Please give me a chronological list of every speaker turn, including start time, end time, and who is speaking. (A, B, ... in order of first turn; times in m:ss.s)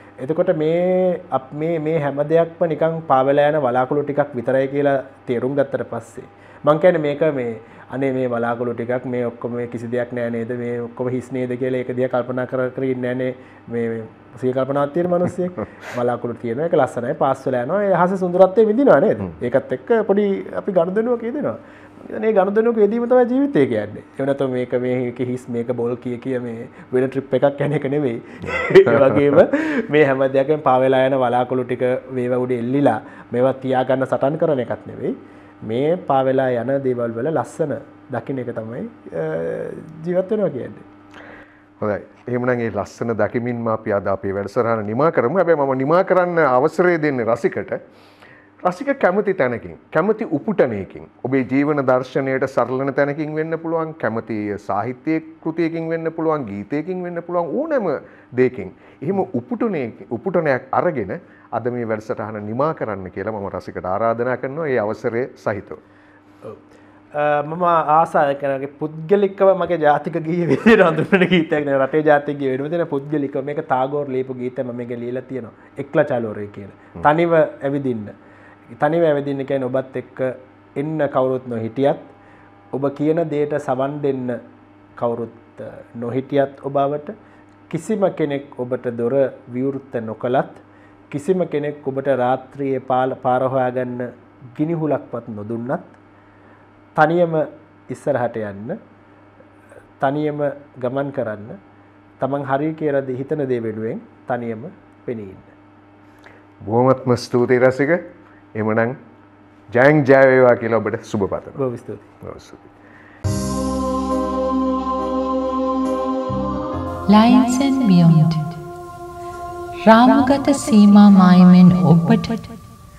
0:00.2-0:40.9 A
0:41.8-0:47.8 B
0:48.6-1:05.8 B
1:07.1-1:18.1 A
1:18.8-1:22.1 A
1:22.7-1:24.4 A
1:25.0-1:27.1 A
1:27.7-1:36.0 A
1:37.0-1:38.8 A
1:40.0-1:41.6 A
1:42.2-1:45.5 A
1:46.6-1:49.0 B
1:49.7-1:51.6 B
1:51.6-1:52.1 A
1:52.2-1:52.7 B
1:57.1-1:58.6 C
1:59.8-2:02.5 C